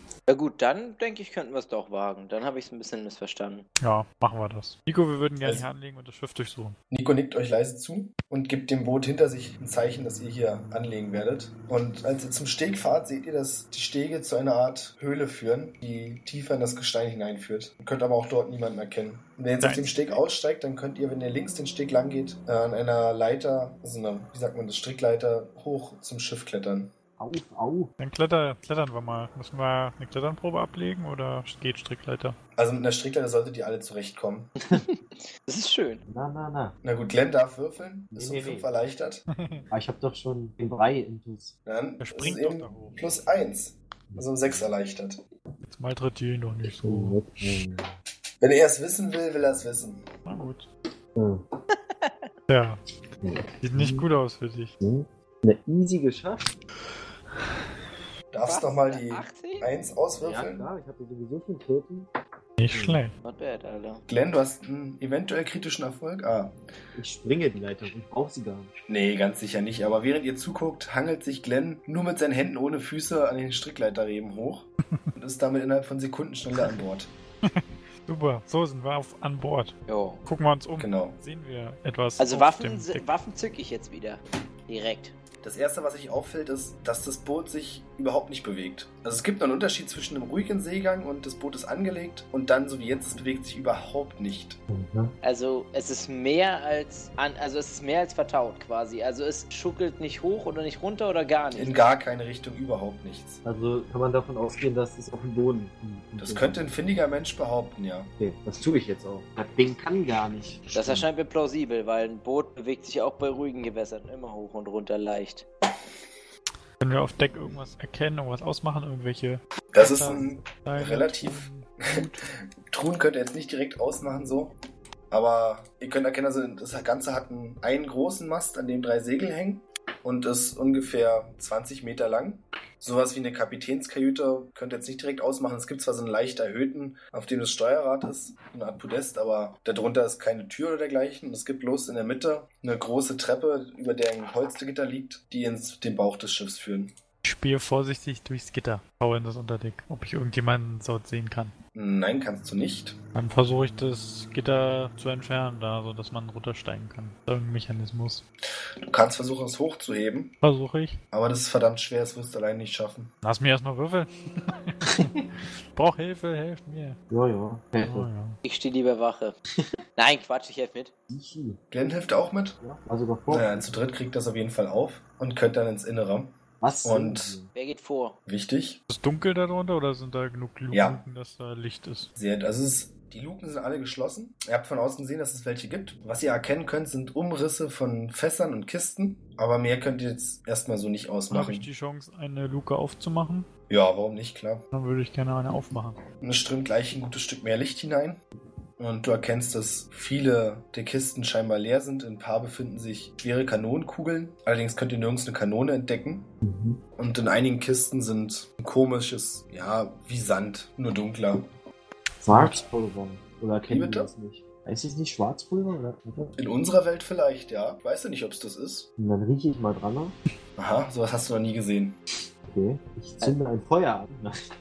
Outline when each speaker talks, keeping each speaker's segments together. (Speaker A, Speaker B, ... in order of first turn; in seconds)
Speaker A: 0.3-3.7, 34.7-36.0, 58.5-59.7, 63.2-64.0, 79.9-80.2, 82.2-85.1, 95.2-101.8, 110.7-115.5, 168.4-169.3, 170.0-170.9, 177.5-178.2
Speaker B: 3.8-6.8, 19.6-20.2, 28.0-32.4, 39.3-39.6, 42.0-43.0, 45.7-47.2, 50.3-50.7, 52.5-52.8, 53.6-54.7, 62.6-63.1, 77.5-79.8, 80.3-83.1, 116.8-122.2, 147.2-151.6, 153.1-158.2, 160.4-161.0, 163.2-165.2, 165.7-167.0, 167.8-168.4, 178.9-182.1, 191.3-193.5, 194.7-196.0, 212.3-212.6
Speaker C: 6.9-26.9, 32.5-34.5, 36.8-39.2, 41.7-45.2, 48.4-50.0, 58.3-60.7, 64.1-66.6, 68.9-77.1, 80.8-81.2, 85.4-94.6, 101.6-103.4, 106.2-108.1, 119.7-124.5, 125.1-146.9, 151.7-153.0, 158.8-160.3, 161.1-163.1, 171.7-172.6, 173.3-177.4, 178.3-178.8, 180.7-181.0, 182.2-191.7, 193.7-194.7, 196.2-198.2, 198.8-206.3, 207.0-211.5, 213.7-214.1, 216.4-218.9, 220.6-222.0
Speaker D: 27.2-27.9, 36.1-36.8, 38.1-38.7, 39.7-41.5, 44.1-44.7, 46.8-48.0, 51.2-51.4, 53.2-54.1, 54.8-56.6, 60.1-62.1, 62.7-63.0, 67.0-68.7, 94.7-95.1, 103.4-106.7, 108.2-111.1, 167.1-168.1, 171.1-171.6, 172.6-173.7, 176.6-177.5, 206.4-206.8, 212.2-216.4, 219.0-220.2, 222.4-224.3